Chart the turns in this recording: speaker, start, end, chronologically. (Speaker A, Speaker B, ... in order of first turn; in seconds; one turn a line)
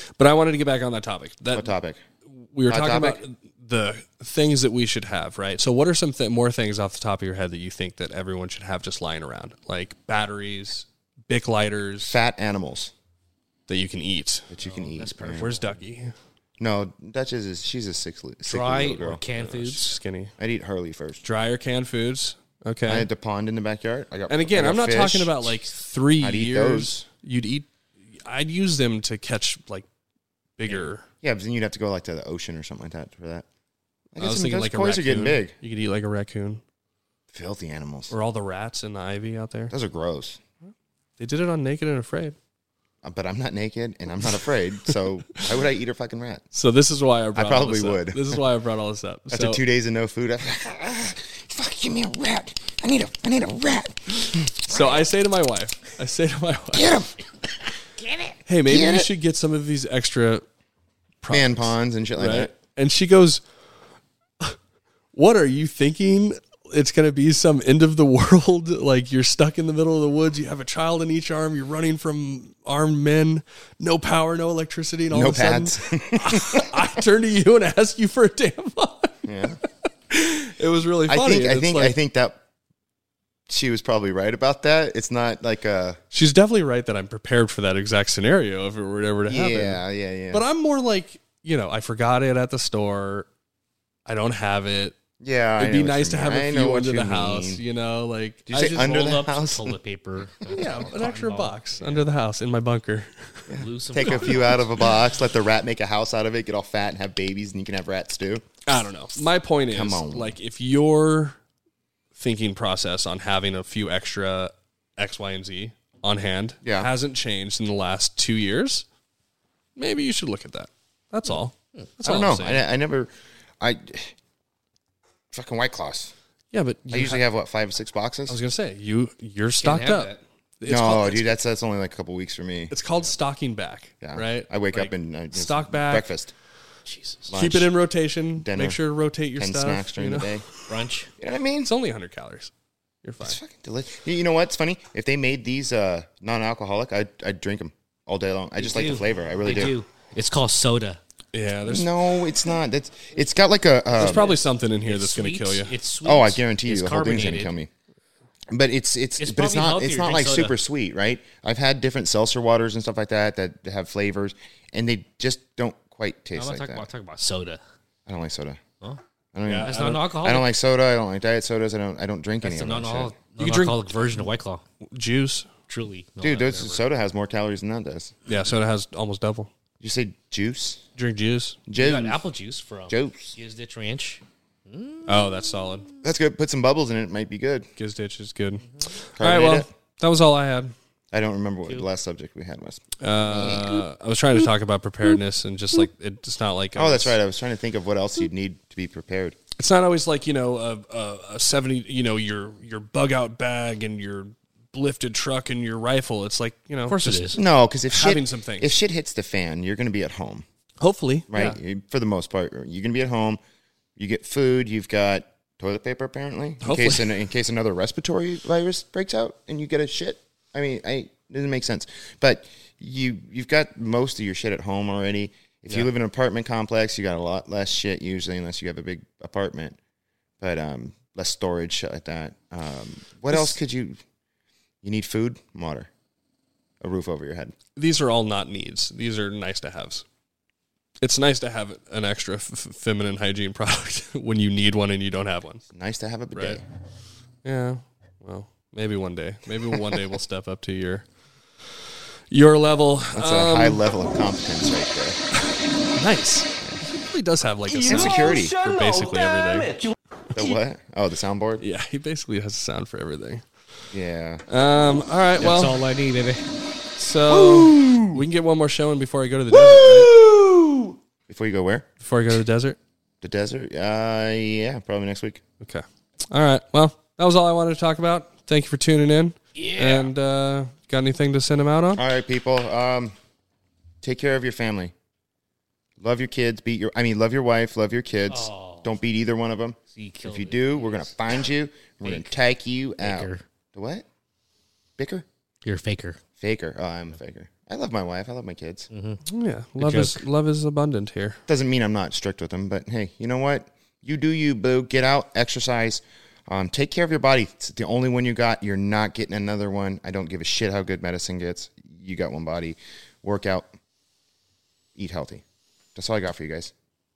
Speaker A: 0.2-1.7
Speaker B: 1.5-2.0
Speaker A: 2.3-12.2
Speaker B: 2.7-3.2
Speaker B: 12.0-12.9
Speaker A: 13.7-14.5
Speaker B: 14.5-15.5
Speaker C: 14.6-15.8
Speaker A: 15.2-16.1
Speaker B: 16.6-19.2
Speaker C: 18.4-19.9
Speaker A: 19.4-20.3
Speaker B: 20.4-21.2
Speaker A: 21.2-23.1
Speaker B: 22.9-25.5
Speaker A: 24.3-29.9
Speaker B: 26.2-27.1
Speaker A: 30.6-31.1
Speaker B: 31.2-33.5
Speaker B: 34.1-35.5
Speaker A: 34.2-36.6
Speaker B: 37.3-38.1
Speaker A: 38.1-39.7
Speaker B: 39.7-40.4
Speaker A: 40.7-42.4
Speaker B: 43.0-46.5
Speaker A: 46.5-49.6
Speaker B: 47.4-48.4
Speaker B: 49.3-55.1
Speaker A: 54.2-57.0
Speaker B: 56.7-57.1
Speaker A: 58.5-60.5
Speaker B: 58.7-59.1
Speaker A: 61.2-63.4
Speaker B: 61.3-62.5
Speaker A: 65.1-79.3
Speaker B: 75.1-76.8
Speaker B: 79.2-79.6
Speaker A: 80.1-82.0
Speaker B: 81.1-82.4
Speaker B: 83.5-86.0
Speaker A: 86.1-93.3
Speaker B: 89.3-90.4
Speaker A: 94.1-95.0
Speaker B: 95.2-97.6
Speaker A: 95.6-98.9
Speaker B: 98.5-99.8
Speaker C: 98.5-102.1
Speaker A: 100.5-104.5
Speaker B: 100.6-100.9
Speaker B: 103.5-108.4
Speaker C: 103.5-104.7
Speaker A: 108.7-111.4
Speaker B: 109.7-110.3
Speaker A: 112.2-118.9
Speaker B: 116.6-116.9
Speaker A: 119.8-122.7
Speaker B: 122.0-124.2
Speaker B: 125.3-126.1
Speaker A: 126.5-127.2
Speaker B: 126.9-128.4
Speaker A: 128.3-131.3
Speaker C: 129.6-130.2
Speaker B: 130.7-132.7
Speaker A: 132.7-136.1
Speaker B: 134.0-136.3
Speaker C: 136.9-137.3
Speaker B: 137.3-137.7
Speaker A: 137.3-140.7
Speaker B: 138.4-138.8
Speaker B: 139.4-140.5
Speaker C: 140.7-141.1
Speaker B: 141.2-141.7
Speaker A: 141.6-142.5
Speaker A: 143.0-143.4
Speaker B: 143.2-149.8
Speaker C: 148.6-151.0
Speaker A: 151.3-151.9
Speaker B: 151.7-154.3
Speaker A: 154.0-155.7
Speaker C: 154.0-157.5
Speaker B: 156.0-157.7
Speaker B: 158.5-166.9
Speaker C: 159.2-160.6
Speaker C: 166.4-167.6
Speaker B: 168.1-168.6
Speaker B: 169.3-173.1
Speaker A: 169.4-170.0
Speaker C: 169.6-170.5
Speaker C: 172.4-174.6
Speaker A: 173.4-173.8
Speaker A: 174.9-175.5
Speaker C: 175.7-176.8
Speaker B: 176.2-178.1
Speaker A: 178.3-179.5
Speaker B: 179.8-180.8
Speaker A: 181.0-181.6
Speaker B: 181.7-182.2
Speaker C: 181.8-185.3
Speaker B: 182.9-183.4
Speaker A: 185.1-185.9
Speaker B: 186.0-187.7
Speaker A: 187.8-190.7
Speaker B: 189.2-189.7
Speaker B: 191.1-193.7
Speaker A: 193.0-197.2
Speaker C: 193.4-193.7
Speaker B: 196.8-199.4
Speaker A: 199.6-207.4
Speaker C: 206.9-207.4
Speaker B: 207.3-210.4
Speaker A: 207.9-208.8
Speaker A: 210.8-211.6
Speaker B: 211.3-213.4
Speaker B: 214.0-229.8
Speaker A: 216.6-217.1
Speaker B: 230.4-234.0
Speaker B: 234.8-235.9
Speaker B: 236.8-237.6
Speaker A: 237.8-240.1
Speaker A: 241.0-245.7
Speaker B: 245.7-246.6
Speaker A: 246.3-246.6
Speaker A: 247.4-251.1
Speaker A: 252.3-253.9
Speaker B: 253.1-255.2
Speaker A: 255.4-259.8
Speaker B: 256.6-256.8
Speaker B: 257.9-258.6
Speaker B: 260.3-261.6
Speaker A: 261.6-263.5
Speaker B: 263.9-264.4
Speaker A: 264.5-265.8
Speaker C: 265.4-266.5
Speaker A: 267.0-270.1
Speaker C: 267.6-268.0
Speaker C: 270.2-270.9
Speaker B: 271.3-271.9
Speaker A: 272.0-272.8
Speaker B: 273.2-275.4
Speaker A: 275.6-282.0
Speaker C: 279.6-280.1
Speaker B: 281.9-283.1
Speaker B: 284.0-284.9
Speaker B: 286.0-294.1
Speaker C: 288.3-288.9
Speaker C: 289.9-291.3
Speaker C: 292.0-292.4
Speaker C: 293.0-293.4
Speaker B: 295.0-295.3
Speaker C: 295.6-296.2
Speaker B: 296.4-298.9
Speaker C: 298.9-299.2
Speaker A: 299.3-301.4
Speaker C: 299.8-300.2
Speaker B: 301.5-313.7
Speaker B: 314.9-315.4
Speaker B: 315.9-316.7